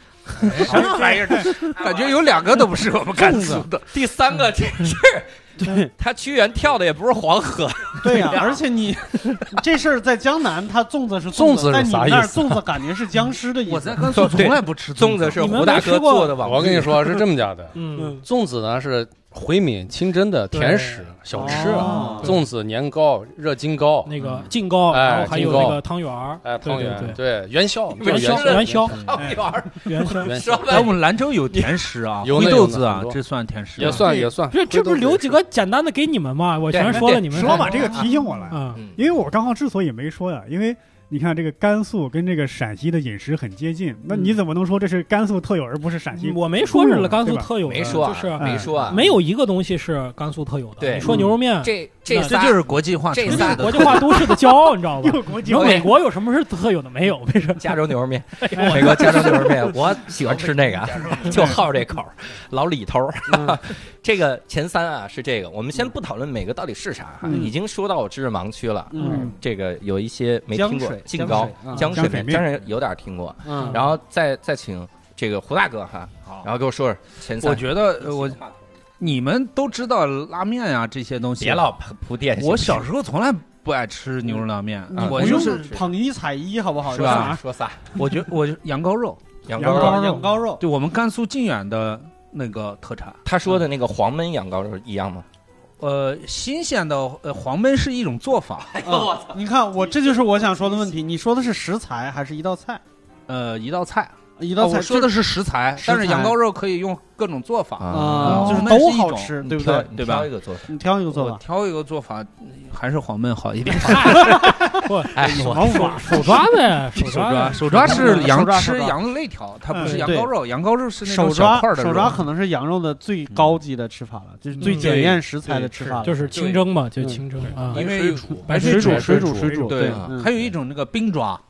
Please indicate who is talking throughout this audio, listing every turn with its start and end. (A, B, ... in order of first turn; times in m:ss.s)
0:00.3-0:00.8 A
0:00.4-0:03.9 B
0:00.7-0:01.6 C
0:00.7-0:01.0 D
0:01.8-0:02.4 E
0:03.2-0:03.6 D
0:03.4-0:08.6 E
0:05.6-0:05.9 D
0:08.0-0:14.4 D
0:09.2-0:09.4 E
0:11.3-0:12.7 F
0:13.7-0:15.6 B
0:14.1-0:17.2 E
0:15.4-0:16.4 A
0:16.4-0:24.1 F
0:17.7-0:18.2 A
0:20.5-0:22.4 A
0:21.4-0:22.4 D
0:24.0-0:27.2 A
0:24.9-0:25.8 F
0:26.4-0:29.0 F
0:27.9-0:31.9 E
0:28.0-0:29.0 A
0:29.8-0:30.3 A
0:30.1-0:30.8 F
0:30.6-0:34.1 B
0:32.2-0:33.2 F
0:33.8-0:35.4 F
0:34.5-0:38.8 A
0:36.7-0:38.1 E
0:37.2-0:47.6 C
0:38.7-0:39.0 E
0:46.2-0:52.4 A
0:47.6-0:49.1 E
0:48.4-0:48.7 C
0:50.8-0:54.4 E
0:52.2-0:54.3 B
0:53.2-0:57.8 A
0:55.0-0:55.9 C
0:55.4-0:55.9 E
0:57.6-1:18.5 E
0:58.4-0:59.6 A
1:01.1-1:01.3 B
1:03.3-1:03.6 D
1:07.3-1:07.5 D
1:08.9-1:09.4 D
1:10.5-1:12.2 D
1:11.8-1:12.4 C
1:13.4-1:13.9 D
1:17.4-1:18.4 B
1:19.0-1:21.7 B
1:21.4-1:22.9 E
1:22.4-1:25.7 B
1:24.9-1:27.4 D
1:24.9-1:25.9 E
1:26.9-1:27.9 E
1:26.9-1:27.4 B
1:28.0-1:29.2 B
1:29.4-1:30.2 E
1:29.6-1:29.9 C
1:29.6-1:30.6 D
1:30.6-1:33.2 B
1:33.2-1:35.3 E
1:35.8-1:38.7 B
1:38.7-1:39.4 E
1:38.8-1:42.8 D
1:43.3-1:50.3 B
1:44.4-1:45.2 D
1:45.8-1:46.4 D
1:47.8-1:48.7 E
1:47.9-1:49.9 D
1:49.4-1:50.7 E
1:50.7-1:51.4 D
1:51.1-1:54.6 B
1:53.7-1:58.3 A
1:53.9-1:56.3 E
1:55.3-1:56.3 D
1:57.0-2:02.2 B
1:57.8-1:59.0 D
1:59.8-2:00.2 A
1:59.9-2:00.3 D
2:01.0-2:06.4 D
2:03.3-2:03.6 B
2:04.6-2:05.2 A
2:05.5-2:06.7 B
2:06.0-2:07.8 A
2:07.0-2:07.2 D
2:07.5-2:11.4 B
2:07.7-2:08.4 E
2:08.5-2:09.3 A
2:08.6-2:09.4 F
2:08.6-2:10.3 D
2:08.6-2:09.7 C
2:09.8-2:10.2 E